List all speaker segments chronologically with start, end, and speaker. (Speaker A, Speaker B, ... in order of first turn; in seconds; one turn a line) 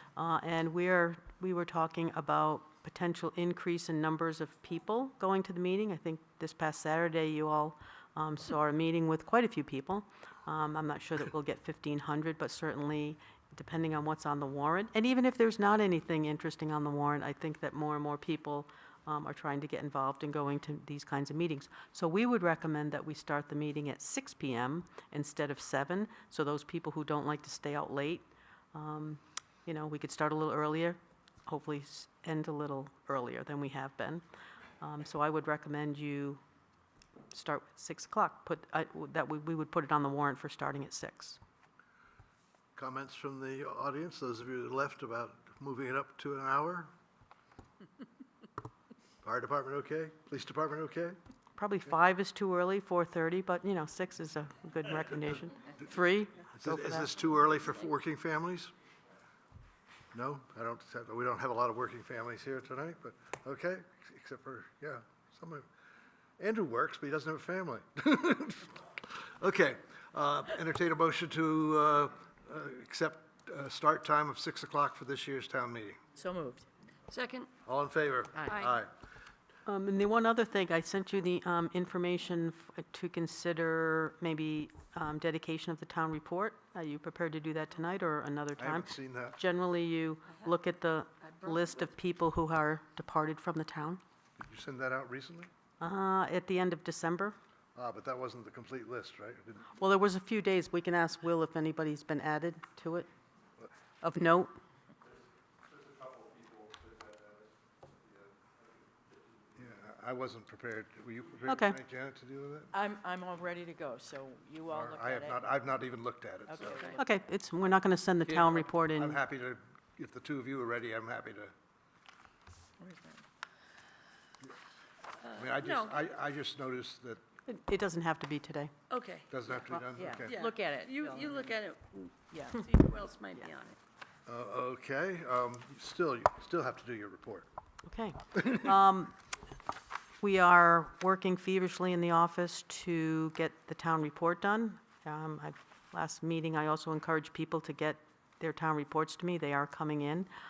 Speaker A: 0.1-34.2
Speaker A: 34.8-36.4
Speaker A: 37.3-41.4
Speaker B: 42.8-46.9
Speaker B: 49.2-51.2
Speaker A: 51.6-57.1
Speaker B: 56.5-58.7
Speaker B: 60.1-65.7
Speaker B: 66.4-76.0
Speaker C: 76.2-76.7
Speaker D: 77.1-77.5
Speaker B: 77.6-78.9
Speaker A: 79.7-94.0
Speaker B: 88.6-89.4
Speaker B: 94.4-95.5
Speaker A: 95.8-97.3
Speaker B: 97.8-99.7
Speaker A: 99.7-103.1
Speaker A: 104.0-104.5
Speaker B: 109.5-112.7
Speaker A: 111.5-111.8
Speaker C: 112.7-115.4
Speaker B: 114.7-116.9
Speaker C: 116.5-117.0
Speaker A: 117.0-119.2
Speaker B: 118.3-121.5
Speaker C: 122.8-123.2
Speaker D: 125.2-126.0
Speaker B: 125.4-127.2
Speaker A: 127.5-128.7
Speaker D: 128.9-129.3
Speaker B: 129.3-130.4
Speaker C: 129.7-131.5
Speaker D: 130.2-133.8
Speaker C: 132.3-132.7
Speaker B: 134.2-137.5
Speaker A: 137.8-139.1
Speaker A: 140.2-150.3